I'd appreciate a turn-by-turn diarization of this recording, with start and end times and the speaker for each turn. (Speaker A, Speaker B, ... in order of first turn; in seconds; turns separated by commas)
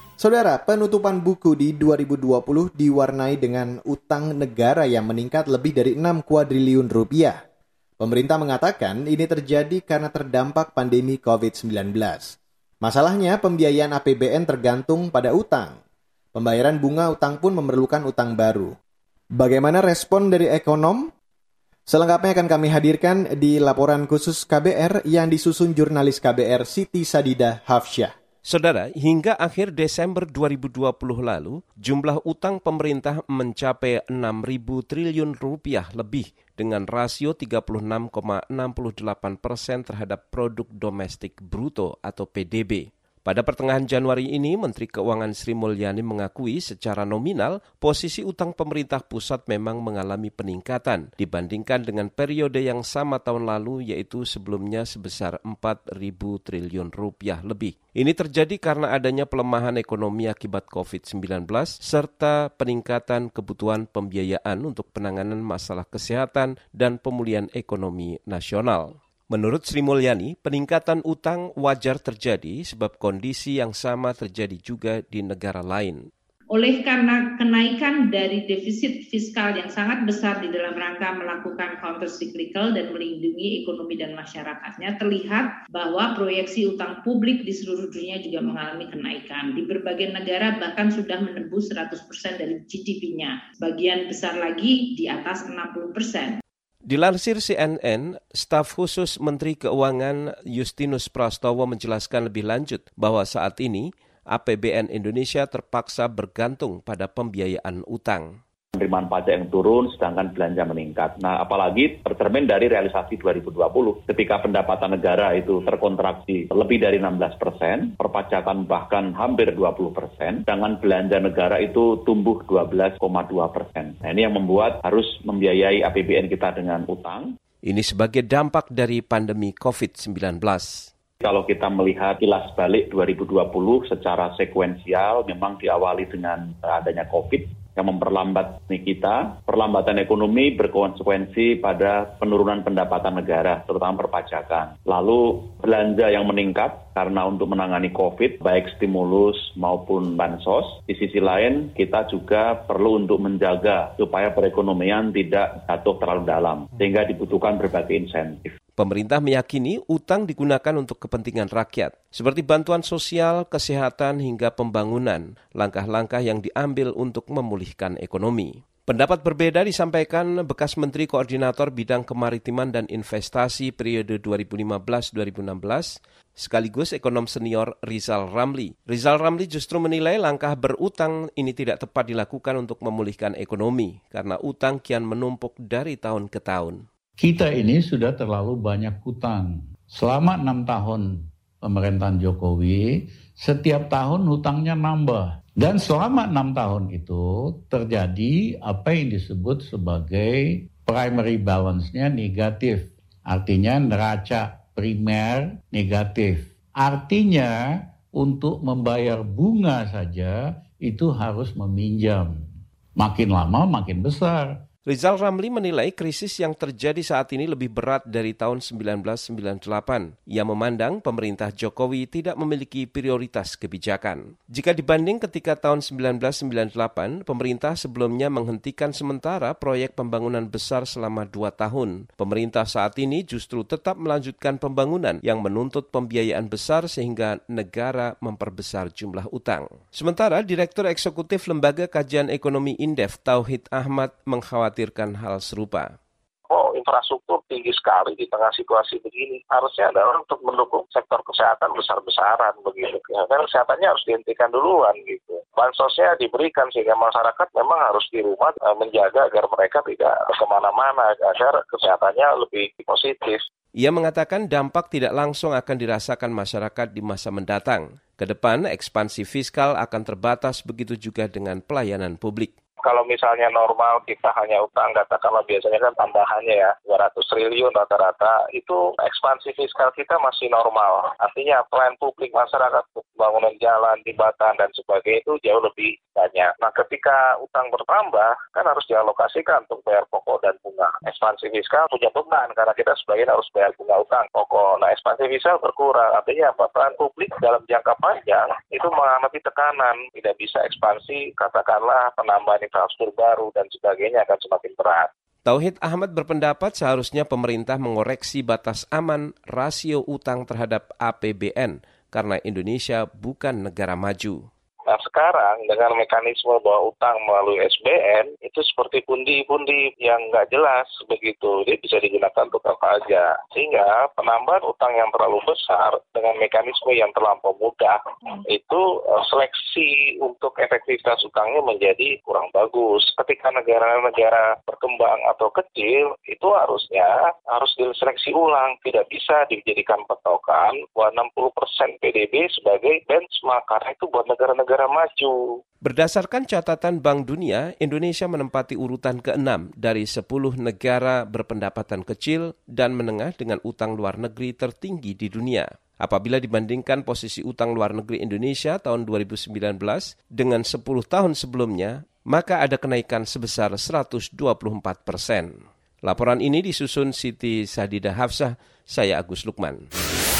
Speaker A: 0.2-7.4, Speaker A: 8.0-15.8, Speaker A: 16.3-18.8, Speaker A: 19.4-21.1, Speaker A: 21.9-28.1, Speaker B: 28.4-76.0, Speaker C: 76.5-96.4, Speaker B: 96.9-108.4, Speaker D: 108.8-127.3, Speaker B: 127.6-130.9, Speaker D: 131.2-158.5, Speaker B: 158.8-186.8, Speaker E: 187.2-191.1, Speaker E: 191.6-192.9, Speaker E: 193.4-207.6, Speaker E: 208.2-212.3, Speaker E: 213.0-214.6, Speaker B: 214.9-245.9, Speaker F: 246.5-263.4, Speaker B: 263.8-272.5, Speaker F: 272.8-305.1, Speaker B: 305.4-314.5, Speaker F: 314.9-345.4, Speaker B: 345.8-369.9